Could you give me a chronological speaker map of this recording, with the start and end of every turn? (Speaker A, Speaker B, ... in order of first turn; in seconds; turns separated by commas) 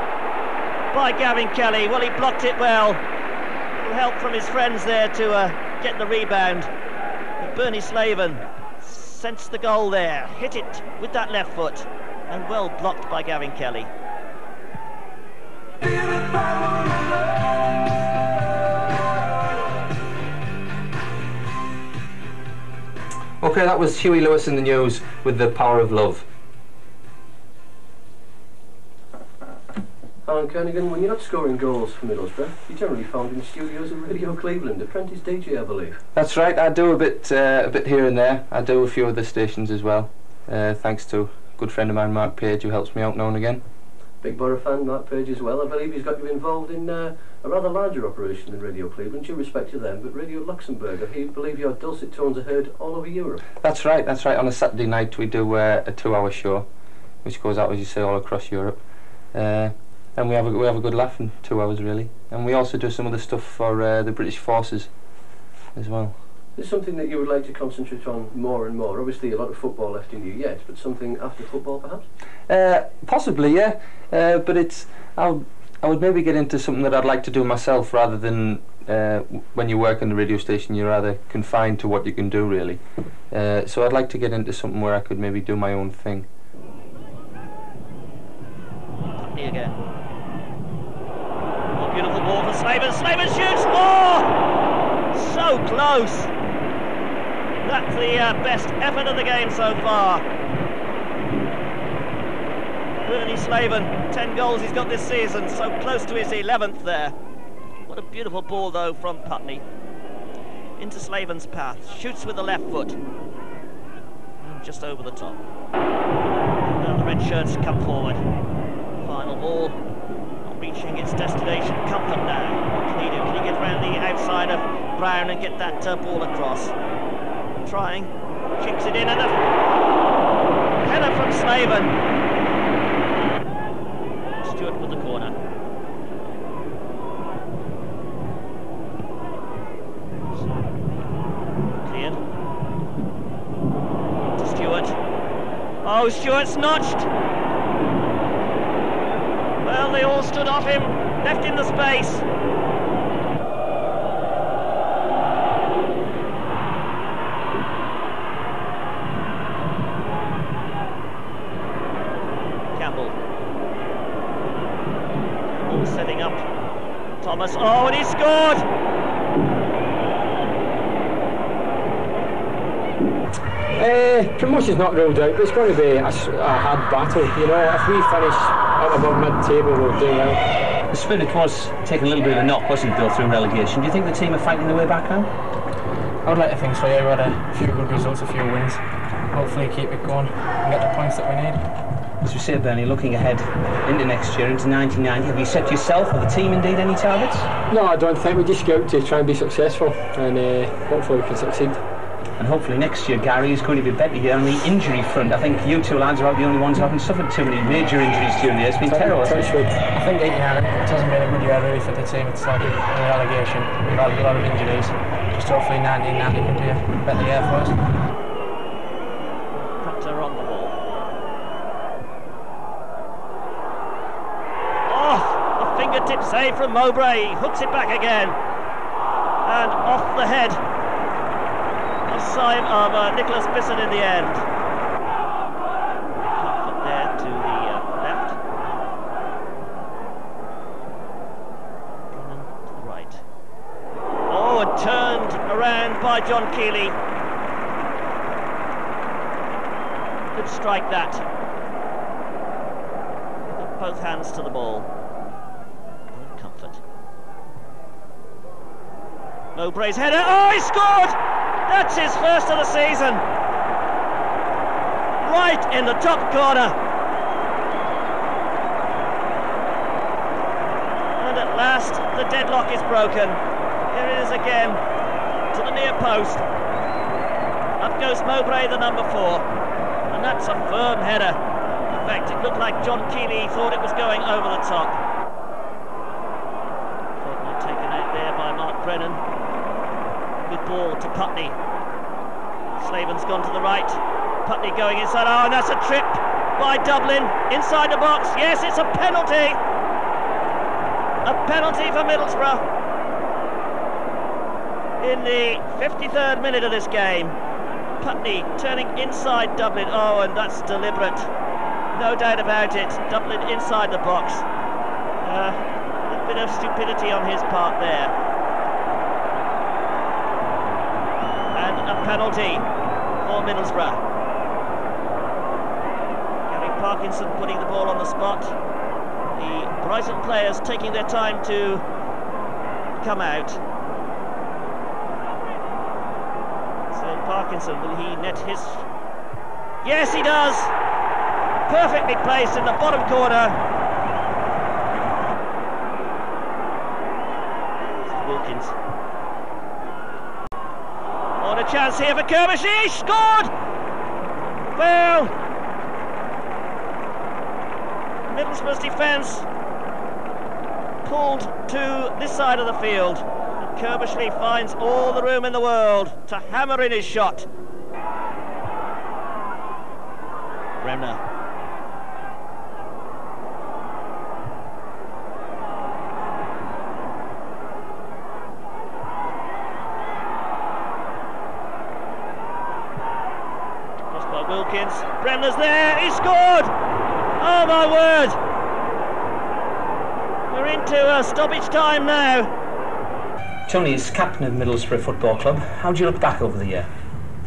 Speaker A: 0.9-3.0, Speaker A: 3.8-6.7, Speaker A: 7.4-13.9, Speaker B: 23.4-26.2, Speaker C: 30.2-36.0, Speaker B: 36.1-43.6, Speaker C: 44.2-53.4, Speaker B: 53.6-56.7, Speaker B: 57.2-66.2, Speaker C: 66.5-72.1, Speaker B: 72.5-86.3, Speaker A: 89.2-89.8, Speaker A: 91.7-94.3, Speaker A: 95.1-96.3, Speaker A: 97.6-100.2, Speaker A: 103.0-107.1, Speaker A: 107.8-109.6, Speaker A: 110.8-113.0, Speaker A: 114.4-115.4, Speaker A: 116.6-118.2, Speaker A: 119.0-119.8, Speaker A: 120.4-126.7, Speaker A: 127.6-129.4, Speaker A: 130.8-132.0, Speaker A: 134.4-135.3, Speaker A: 141.8-142.2, Speaker A: 144.4-144.9, Speaker A: 145.8-147.1, Speaker A: 149.6-152.2, Speaker A: 162.8-163.1, Speaker A: 165.5-166.4, Speaker A: 167.2-168.6, Speaker D: 173.7-180.4, Speaker E: 180.9-185.3, Speaker D: 186.2-188.8, Speaker D: 189.3-191.6, Speaker E: 192.2-197.5, Speaker D: 197.7-201.8, Speaker E: 202.4-209.6, Speaker D: 208.8-217.7, Speaker A: 219.5-220.8, Speaker A: 224.9-228.4, Speaker A: 229.4-230.6, Speaker A: 232.1-234.4, Speaker A: 236.3-238.4, Speaker A: 242.1-243.2, Speaker A: 244.3-247.0, Speaker A: 250.3-251.2, Speaker A: 253.4-254.9, Speaker A: 256.1-256.8, Speaker A: 259.5-263.2, Speaker A: 265.2-266.8, Speaker A: 271.2-274.8, Speaker A: 275.5-276.4, Speaker A: 277.8-279.4, Speaker A: 280.1-281.4, Speaker A: 281.9-285.0, Speaker A: 287.2-289.2, Speaker A: 290.4-291.6, Speaker A: 292.8-299.6, Speaker A: 301.2-302.6, Speaker A: 305.0-307.4, Speaker A: 308.0-311.3, Speaker A: 311.9-314.4, Speaker A: 315.2-318.1, Speaker A: 321.5-322.7, Speaker A: 323.2-324.0, Speaker A: 326.5-328.5, Speaker A: 329.3-331.8, Speaker A: 333.0-333.6, Speaker A: 336.9-338.8, Speaker A: 339.8-340.7, Speaker A: 341.7-343.6, Speaker A: 348.0-348.7, Speaker A: 351.4-353.5, Speaker A: 354.8-355.3, Speaker A: 358.3-359.4, Speaker A: 361.0-367.5, Speaker A: 370.8-371.2, Speaker A: 384.1-386.7, Speaker A: 387.4-388.4, Speaker A: 390.5-392.5, Speaker E: 393.7-396.9